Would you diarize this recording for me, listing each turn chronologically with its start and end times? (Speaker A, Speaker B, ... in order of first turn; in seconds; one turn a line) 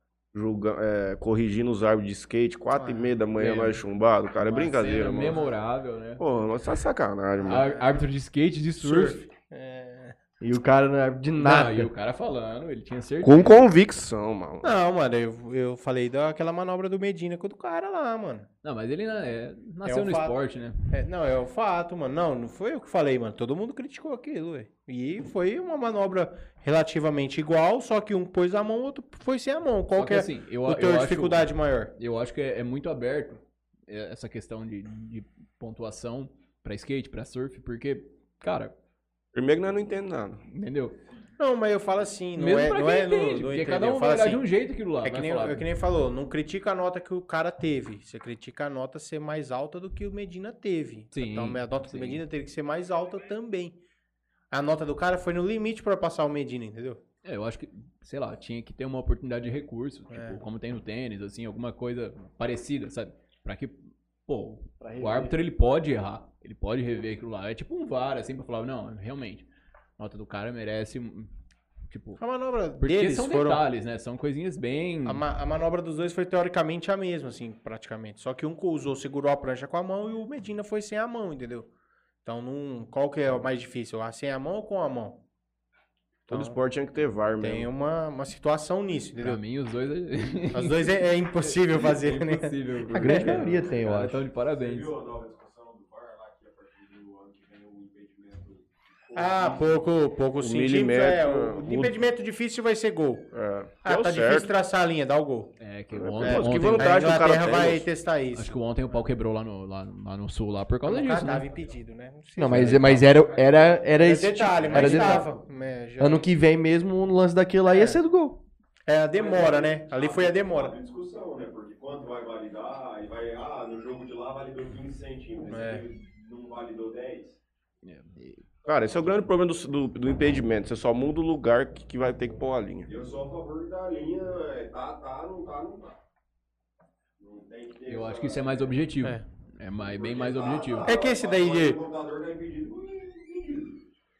Speaker A: 0.3-5.5
Speaker B: 2.7-3.1
Speaker C: 3.3-3.8
Speaker C: 4.4-6.2
Speaker A: 6.2-7.7
Speaker B: 7.4-8.0
Speaker C: 7.4-9.3
Speaker B: 8.8-10.2
Speaker D: 10.4-11.9
Speaker C: 11.4-13.6
Speaker A: 13.2-14.7
Speaker B: 14.6-18.5
Speaker C: 18.6-20.9
Speaker B: 19.8-20.4
Speaker B: 20.9-31.9
Speaker C: 29.9-38.7
Speaker A: 39.3-40.4
Speaker C: 40.5-41.0
Speaker B: 41.4-44.5
Speaker C: 42.4-45.7
Speaker B: 45.0-53.8
Speaker C: 51.1-52.2
Speaker B: 54.5-57.0
Speaker C: 57.2-71.3
Speaker B: 60.1-60.4
Speaker D: 64.8-65.4
Speaker C: 71.9-72.2
Speaker B: 72.2-73.6
Speaker C: 72.8-75.2
Speaker B: 75.0-81.7
Speaker B: 82.2-85.2
Speaker B: 86.3-86.6
Speaker A: 86.3-87.7
Speaker B: 87.4-89.4
Speaker C: 89.2-94.9
Speaker B: 90.5-93.4
Speaker D: 92.9-94.2
Speaker E: 94.5-99.8
Speaker B: 99.1-103.3
Speaker A: 100.4-102.0
Speaker A: 103.3-104.5
Speaker B: 103.8-105.5
Speaker C: 105.6-107.2
Speaker A: 105.9-107.9
Speaker B: 106.2-108.5
Speaker C: 108.3-111.5
Speaker B: 110.8-113.3
Speaker D: 112.4-115.3
Speaker C: 112.5-113.1
Speaker B: 113.8-116.3
Speaker D: 116.0-118.4
Speaker B: 117.6-118.0
Speaker B: 118.9-120.8
Speaker E: 119.1-127.4
Speaker B: 125.5-125.8
Speaker C: 127.8-128.4
Speaker A: 128.6-132.9
Speaker E: 132.9-136.0
Speaker E: 137.2-138.7
Speaker C: 137.8-140.9
Speaker E: 139.8-143.7
Speaker B: 140.8-141.8